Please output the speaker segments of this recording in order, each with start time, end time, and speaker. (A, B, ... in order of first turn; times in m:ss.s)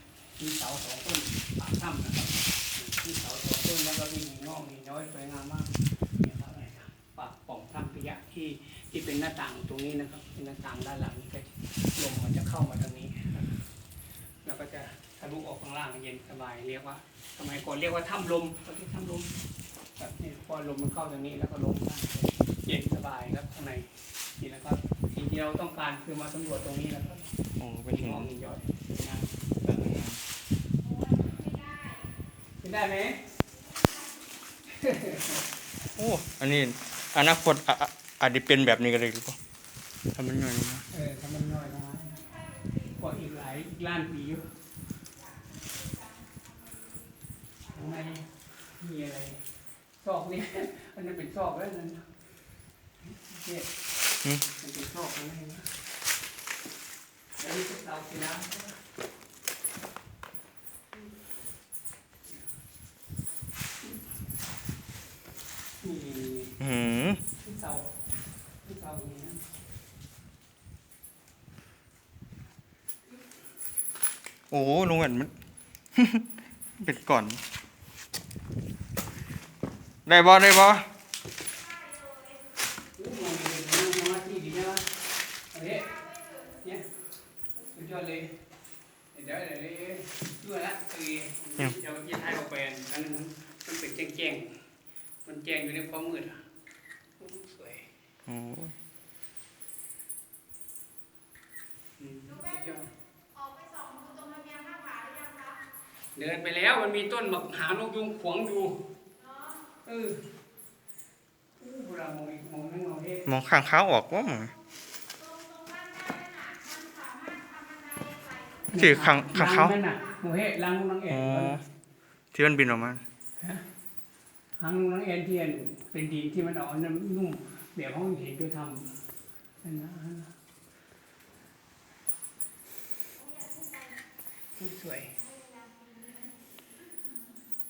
0:00.4-0:13.6 A
0:14.4-0:19.3 A
0:20.0-0:27.3 A
0:27.6-0:28.3 B
0:27.9-0:29.3 A
0:29.6-0:30.2 B
0:32.6-0:33.2 A
0:34.7-0:35.4 A
0:36.0-0:39.4 B
0:40.1-0:40.8 B
0:40.9-0:42.3 A
0:42.8-0:44.5 A
0:47.7-0:49.5 A
0:50.0-0:52.0 A
0:53.0-0:53.7 A
0:54.6-0:55.7 A
0:57.4-0:58.8 A
1:05.8-1:06.6 A
1:06.6-1:07.2 B
1:07.4-1:07.9 A
1:08.6-1:09.4 A
1:14.5-1:15.3 B
1:16.0-1:17.4 B
1:20.1-1:20.9 B
1:23.0-1:24.9 A
1:25.5-1:26.9 A
1:27.6-1:28.3 A
1:29.1-1:34.5 A
1:35.2-1:36.4 A
1:37.2-1:37.9 A
1:38.3-1:38.8 B
1:42.0-1:42.8 A
1:46.2-1:48.8 A
1:49.8-1:50.2 A
1:51.6-1:53.3 A
1:53.3-1:54.5 B
1:58.7-2:01.6 A
1:58.7-1:59.8 B
2:01.1-2:01.6 B
2:02.3-2:03.0 B
2:04.6-2:09.0 A
2:09.6-2:10.3 A
2:14.6-2:15.2 A